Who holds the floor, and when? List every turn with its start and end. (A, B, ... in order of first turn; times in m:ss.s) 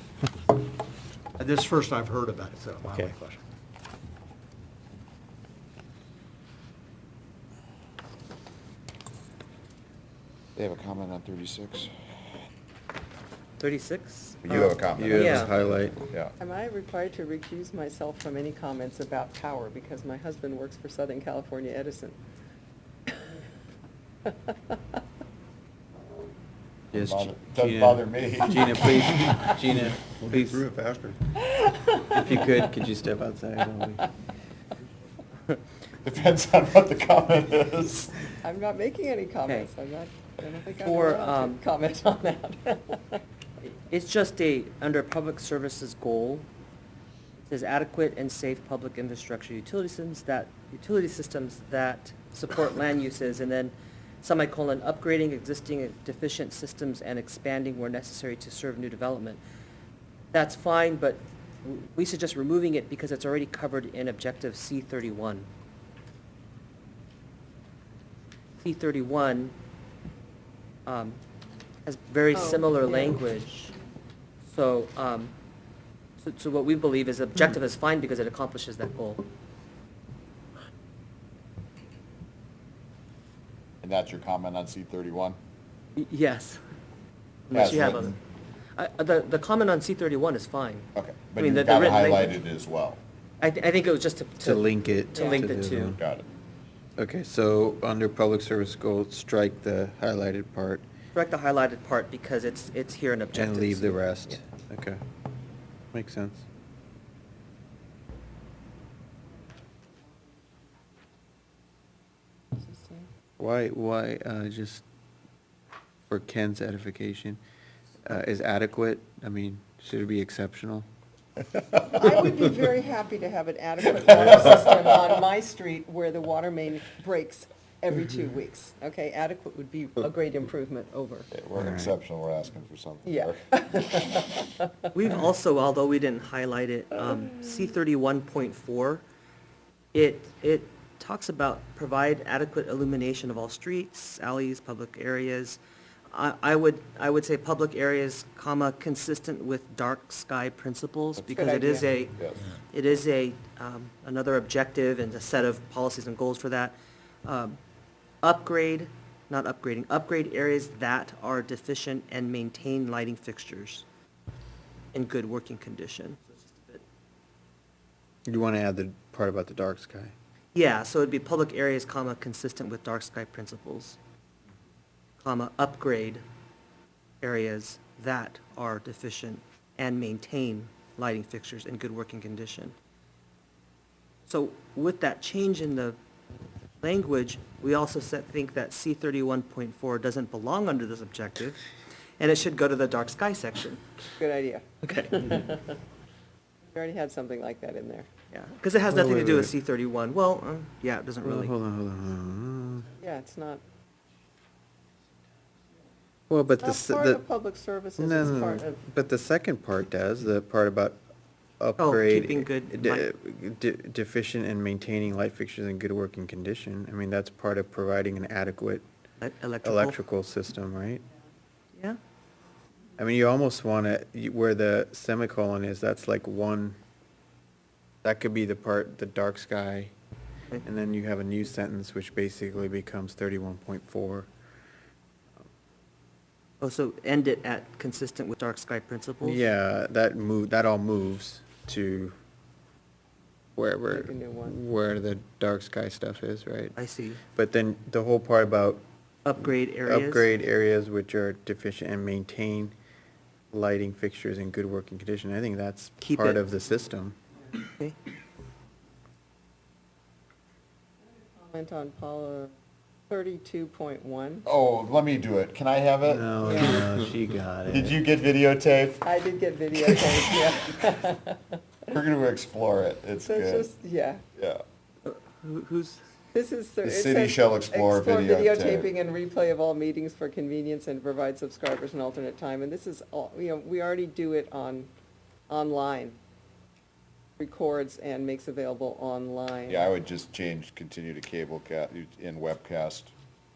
0:01.4-0:03.4 A
0:10.6-0:11.9 B
0:13.6-0:15.5 C
0:14.4-0:15.5 B
0:14.9-0:16.0 D
0:16.4-0:22.2 E
0:26.9-0:28.9 B
0:26.9-0:30.7 D
0:31.4-0:32.1 E
0:32.1-0:34.1 D
0:36.0-0:38.2 B
0:38.4-0:43.2 E
0:40.8-0:41.6 C
0:43.9-0:46.5 C
0:47.4-0:59.4 C
1:00.3-1:05.5 C
1:08.6-1:09.6 C
1:10.9-1:11.2 C
1:11.9-1:13.8 C
1:12.3-1:13.2 E
1:14.5-1:15.3 C
1:16.2-1:19.3 C
1:23.8-1:25.4 B
1:26.0-1:26.6 C
1:27.5-1:28.2 C
1:27.5-1:28.2 B
1:28.8-1:32.4 C
1:31.0-1:33.0 B
1:33.4-1:36.0 C
1:34.4-1:36.0 D
1:36.0-1:36.3 B
1:37.0-1:40.8 D
1:41.2-1:44.4 C
1:43.3-1:45.0 D
1:45.9-1:46.4 D
1:52.6-1:53.1 E
1:53.4-1:54.8 D
1:56.1-1:57.4 D
1:58.0-2:00.9 D
2:01.9-2:11.3 E
2:11.3-2:13.4 B
2:11.6-2:11.9 D
2:13.0-2:14.7 E
2:14.9-2:19.0 C
2:19.9-2:25.6 C
2:26.1-2:37.6 C
2:31.2-2:31.9 E
2:38.2-2:43.8 C
2:44.9-2:46.8 C
2:48.3-2:50.1 D
2:50.6-2:54.0 C
2:55.2-2:56.2 C
2:57.2-3:02.8 C
3:04.3-3:06.0 C
3:06.8-3:11.6 C
3:12.2-3:13.8 C
3:14.2-3:15.7 E
3:14.8-3:15.5 C
3:16.7-3:18.1 E
3:18.3-3:21.5 C
3:18.9-3:19.5 D
3:21.2-3:22.9 D
3:23.0-3:23.6 E
3:26.3-3:27.2 D
3:26.6-3:28.8 E
3:28.0-3:31.0 D
3:31.6-3:38.8 D
3:31.8-3:33.1 C
3:39.2-3:40.0 C
3:39.6-3:41.0 D
3:43.0-3:46.8 D
3:48.0-3:49.9 D
3:50.6-3:54.3 D
3:56.6-3:59.4 C
3:59.2-4:02.2 D
4:03.6-4:06.8 D
4:03.9-4:04.6 E
4:06.8-4:07.2 C
4:07.4-4:08.8 D
4:09.2-4:10.3 C
4:09.9-4:12.8 D
4:13.5-4:17.2 D
4:16.0-4:16.4 C
4:21.1-4:22.5 E
4:23.1-4:24.5 E
4:24.5-4:26.9 B
4:26.0-4:28.0 D
4:26.4-4:26.8 E
4:27.7-4:29.0 B
4:29.0-4:31.6 E
4:29.8-4:30.8 B
4:31.9-4:33.7 B
4:33.3-4:34.2 E
4:35.0-4:36.0 C
4:36.3-4:44.9 E
4:36.8-4:38.9 B
4:45.5-4:46.2 E
4:47.4-4:49.8 E
4:49.7-4:53.1 B